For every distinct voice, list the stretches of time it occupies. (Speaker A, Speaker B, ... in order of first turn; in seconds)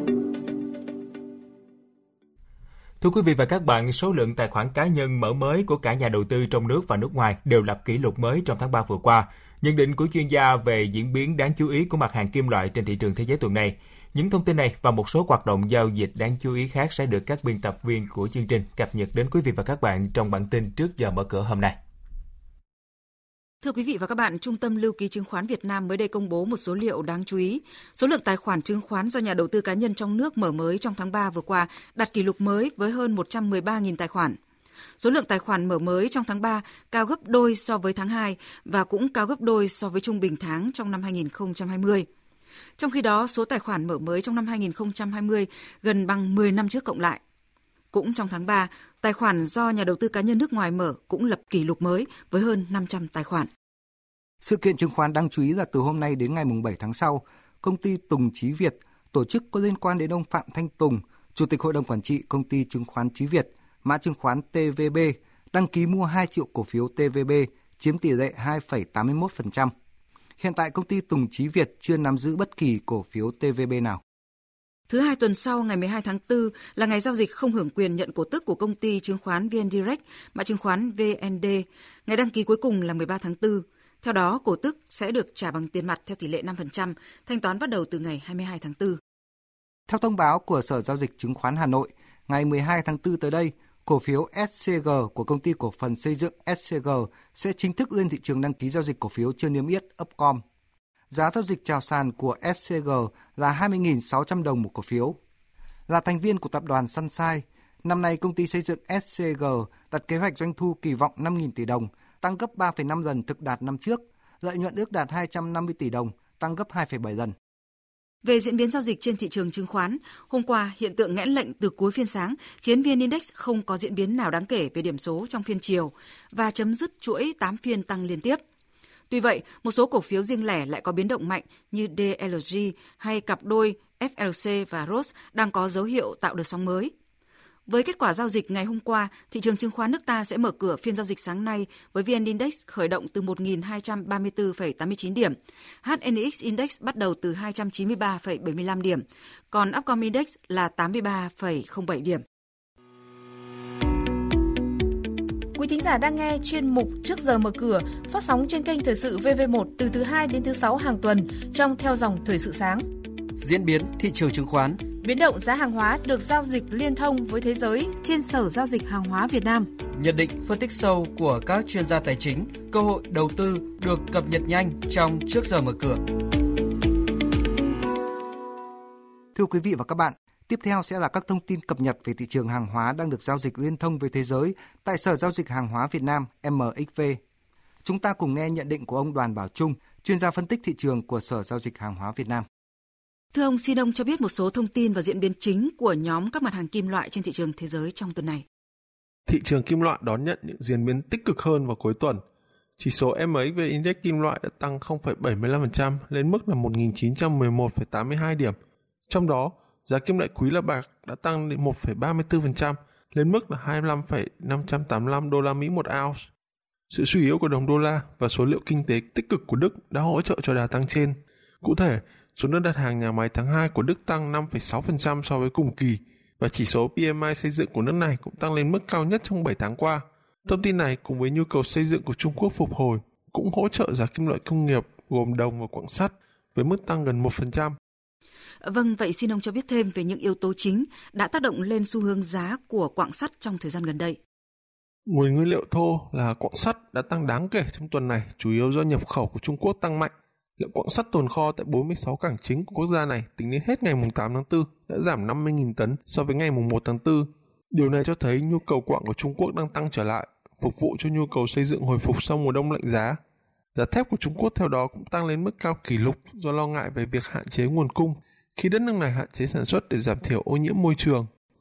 Speaker A: 3.0-21.8
Speaker B: 23.6-34.4, 35.0-42.1, 42.8-47.2, 47.9-53.5, 74.9-89.0, 118.2-128.4, 129.1-136.9, 137.7-152.2, 193.3-198.4, 238.6-244.2
Speaker C: 54.4-69.7, 70.4-74.0, 89.9-100.4, 101.1-105.2, 105.9-117.3, 179.3-187.2, 187.8-192.4
Speaker D: 155.6-162.8, 164.9-169.7
Speaker E: 163.4-164.8, 169.9-176.0
Speaker F: 199.3-202.2, 202.8-208.6, 209.1-216.3, 216.9-237.8, 245.1-263.2, 263.8-271.3